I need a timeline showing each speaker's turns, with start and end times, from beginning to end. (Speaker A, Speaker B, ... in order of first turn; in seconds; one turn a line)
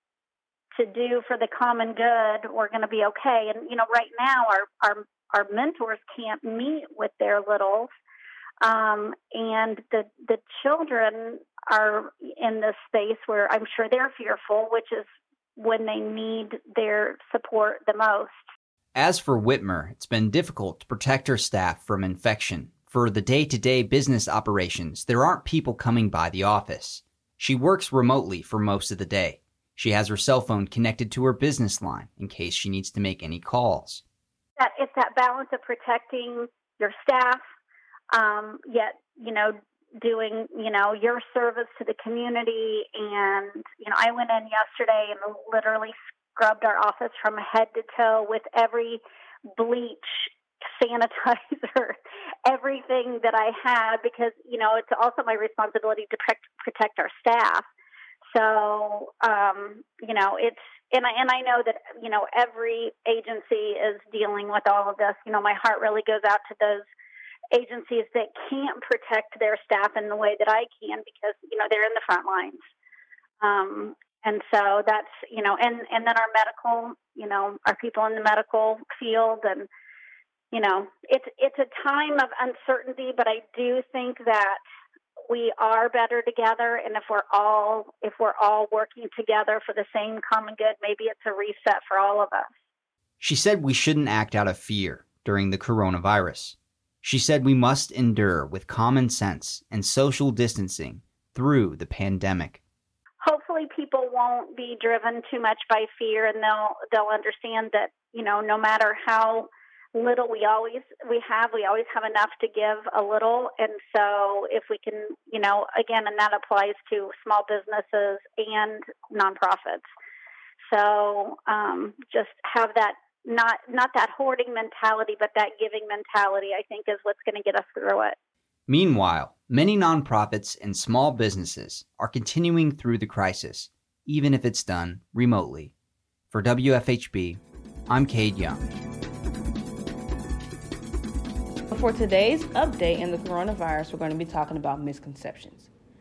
Speaker A: 0.7-7.9
Speaker A: 8.6-18.4
Speaker B: 18.9-34.0
Speaker A: 34.6-37.4
Speaker A: 38.1-49.0
Speaker A: 49.5-57.7
Speaker A: 58.3-66.9
Speaker A: 67.5-72.6
Speaker A: 73.4-79.7
Speaker A: 80.5-84.6
Speaker A: 85.3-92.5
Speaker B: 93.2-102.6
Speaker A: 103.2-119.9
Speaker A: 120.7-128.2
Speaker B: 128.7-135.7
Speaker B: 136.3-138.6
Speaker C: 141.7-145.7